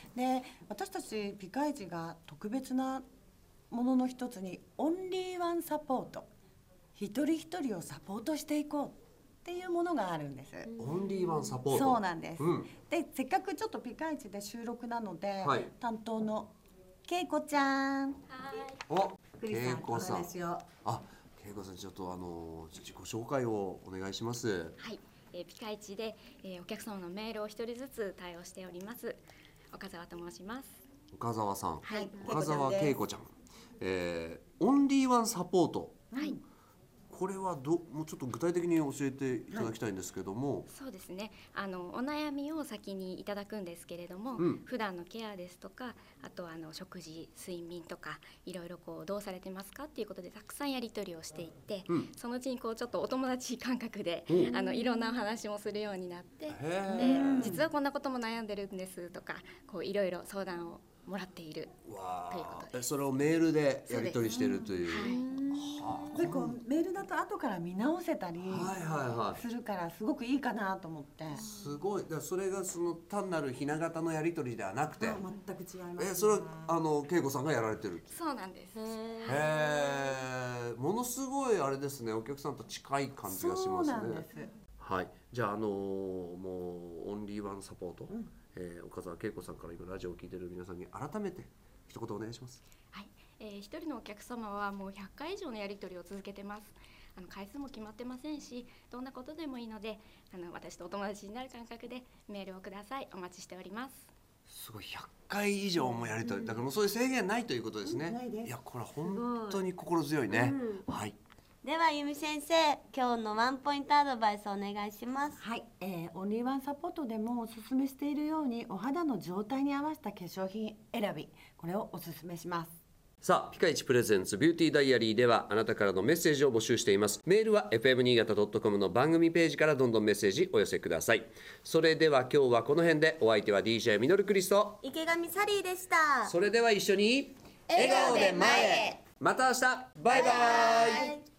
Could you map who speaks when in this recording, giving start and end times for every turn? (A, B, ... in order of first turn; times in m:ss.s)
0:00.1-0:03.0 A
0:03.7-0:06.3 A
0:06.9-0:10.7 A
0:10.8-0:12.7 B
0:10.9-0:11.4 C
0:11.7-0:16.5 A
0:15.4-0:15.7 B
0:17.0-0:18.2 A
0:18.3-0:18.8 D
0:18.9-0:20.3 B
0:19.4-0:20.6 A
0:20.8-0:24.8 B
0:24.8-0:30.8 D
0:31.1-0:36.0 B
0:31.8-0:32.1 D
0:31.9-0:33.0 A
0:36.1-0:36.4 A
0:36.1-0:36.4 D
0:37.1-0:40.7 B
0:39.5-0:39.8 A
0:40.7-1:02.8 D
0:54.3-0:54.6 B
0:56.5-0:57.6 B
0:56.9-0:57.7 A
1:01.8-1:06.5 B
1:03.9-1:04.2 D
1:04.2-1:08.7 A
1:04.8-1:05.3 D
1:08.4-1:09.4 B
1:09.3-1:11.4 A
1:11.4-1:15.2 B
1:15.0-1:16.8 A
1:16.0-1:18.1 B
1:18.1-1:19.7 D
1:18.8-1:19.4 C
1:19.2-1:24.2 B
1:23.3-1:24.5 A
1:24.8-1:32.6 B
1:32.9-1:44.1 D
1:44.5-1:51.2 B
1:47.8-1:48.5 A
1:49.2-1:49.6 C
1:50.3-1:50.8 C
1:51.6-1:55.4 C
1:55.4-2:02.8 A
2:03.2-2:14.8 B
2:14.8-2:16.3 C
2:16.2-2:21.1 B
2:17.7-2:19.0 C
2:20.1-2:21.2 C